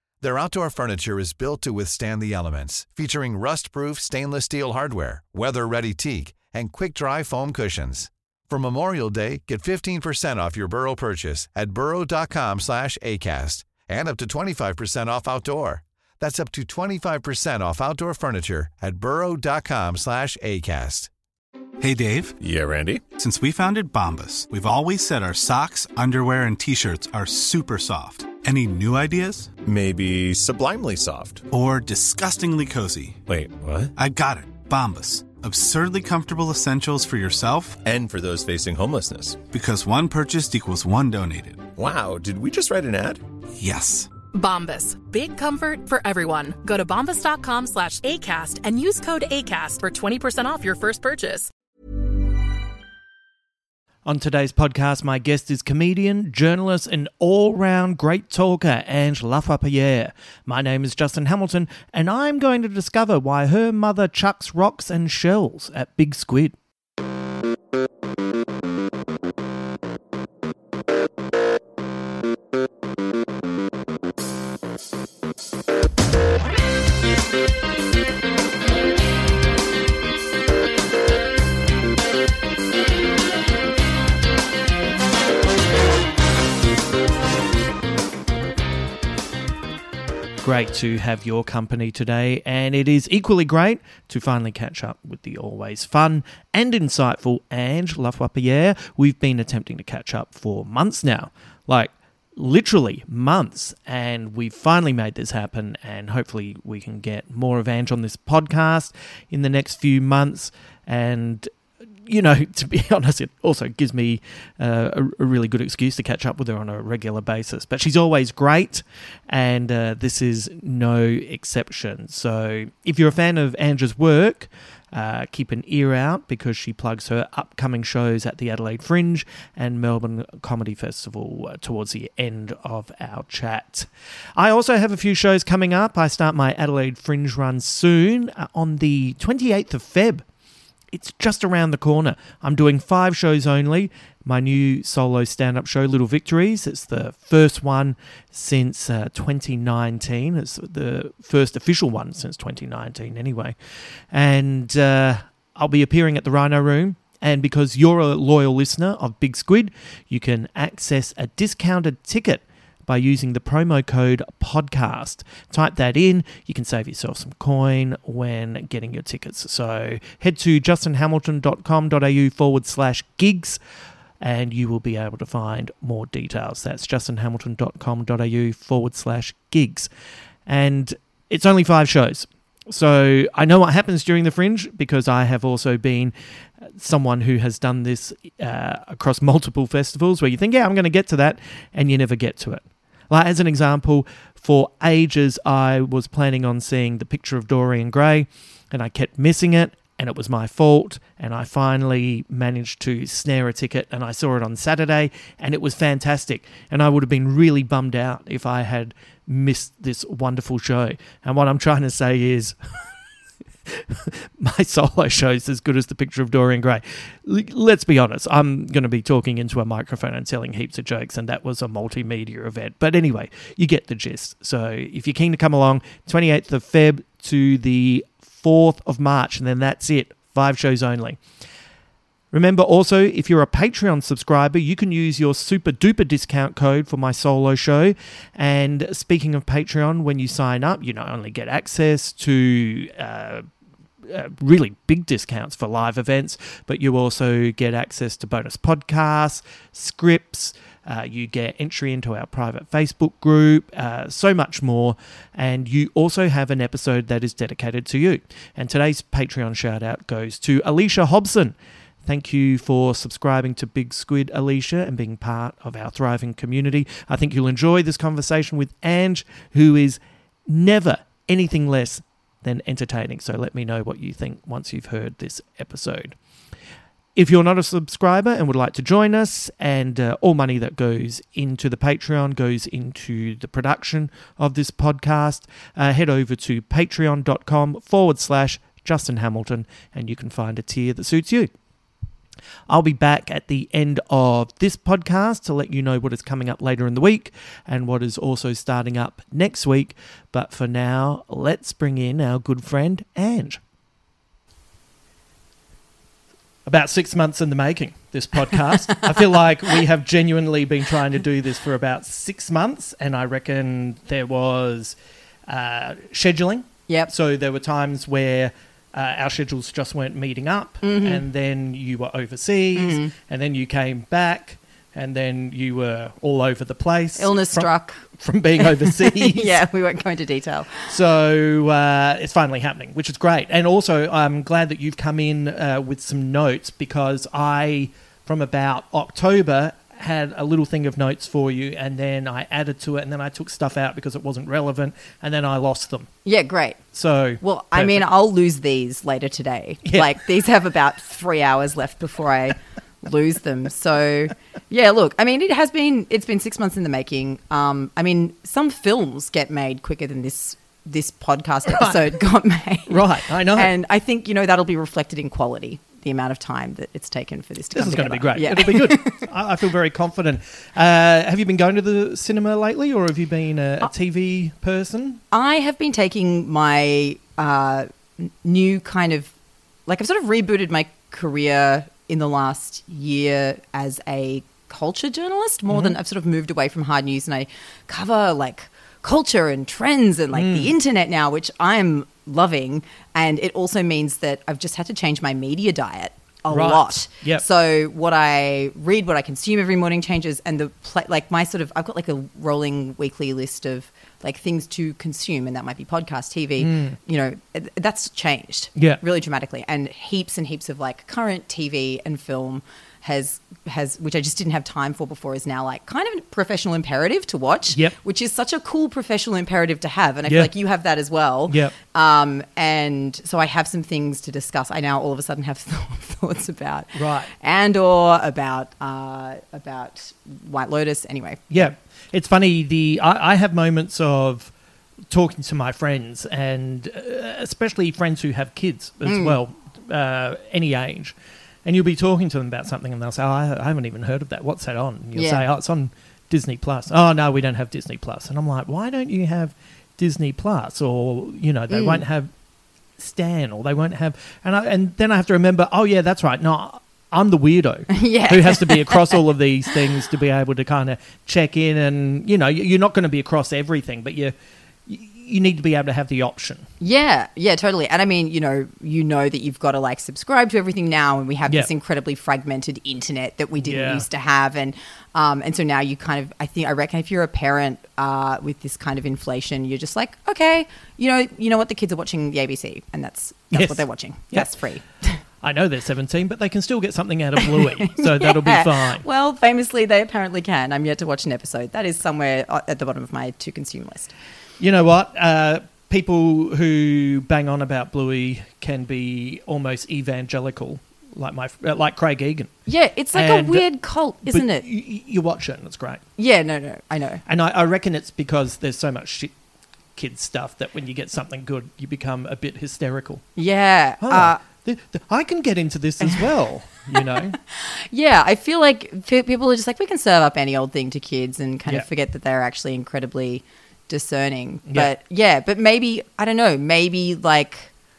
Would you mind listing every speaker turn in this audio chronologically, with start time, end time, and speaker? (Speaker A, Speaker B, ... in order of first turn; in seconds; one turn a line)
Speaker A: 0.2-21.1
Speaker B: 21.8-22.4
Speaker C: 22.4-23.0
Speaker B: 23.2-29.6
Speaker C: 29.6-31.4
Speaker B: 31.5-33.2
Speaker C: 33.3-33.9
Speaker B: 34.0-37.8
Speaker C: 37.8-39.4
Speaker B: 39.5-41.7
Speaker C: 41.8-43.2
Speaker B: 43.6-44.1
Speaker D: 44.3-51.5
Speaker E: 54.0-66.6
Speaker E: 90.4-111.5
Speaker E: 112.0-140.2
Speaker E: 140.9-153.6
Speaker E: 154.1-173.6
Speaker E: 174.2-179.9
Speaker E: 180.5-186.1
Speaker E: 186.8-212.6
Speaker E: 213.7-231.2
Speaker E: 232.3-243.5
Speaker E: 244.0-276.1
Speaker E: 277.1-291.5
Speaker E: 292.7-303.6
Speaker E: 306.6-314.9
Speaker F: 308.9-309.3
Speaker E: 315.5-329.6
Speaker F: 320.8-321.2
Speaker F: 322.8-323.1
Speaker F: 327.2-328.0
Speaker F: 328.6-330.9
Speaker E: 330.9-346.1
Speaker F: 346.2-346.8
Speaker E: 346.9-348.1
Speaker F: 347.4-369.2
Speaker E: 349.9-350.2
Speaker E: 361.7-362.1
Speaker E: 362.9-363.7
Speaker E: 367.8-375.2
Speaker F: 375.3-379.3
Speaker F: 379.9-431.7
Speaker E: 385.7-385.9
Speaker E: 390.3-390.7
Speaker E: 396.5-397.4
Speaker E: 406.6-407.0
Speaker E: 408.8-409.0
Speaker E: 421.5-421.8
Speaker E: 426.9-427.3
Speaker E: 431.5-434.5
Speaker E: 435.1-452.3
Speaker F: 439.1-439.4
Speaker F: 445.1-445.4
Speaker F: 451.7-452.0
Speaker E: 453.0-464.3
Speaker F: 457.9-459.2
Speaker E: 464.9-466.7
Speaker F: 466.8-485.2
Speaker E: 473.6-474.1
Speaker E: 483.5-484.5
Speaker E: 485.4-489.0
Speaker F: 487.4-494.1
Speaker E: 494.6-502.6
Speaker F: 502.6-504.6
Speaker E: 503.1-503.7
Speaker E: 504.3-506.0
Speaker F: 506.2-507.2
Speaker E: 507.2-509.3
Speaker E: 510.0-513.2
Speaker F: 513.4-514.4
Speaker E: 514.0-517.4
Speaker F: 516.9-527.7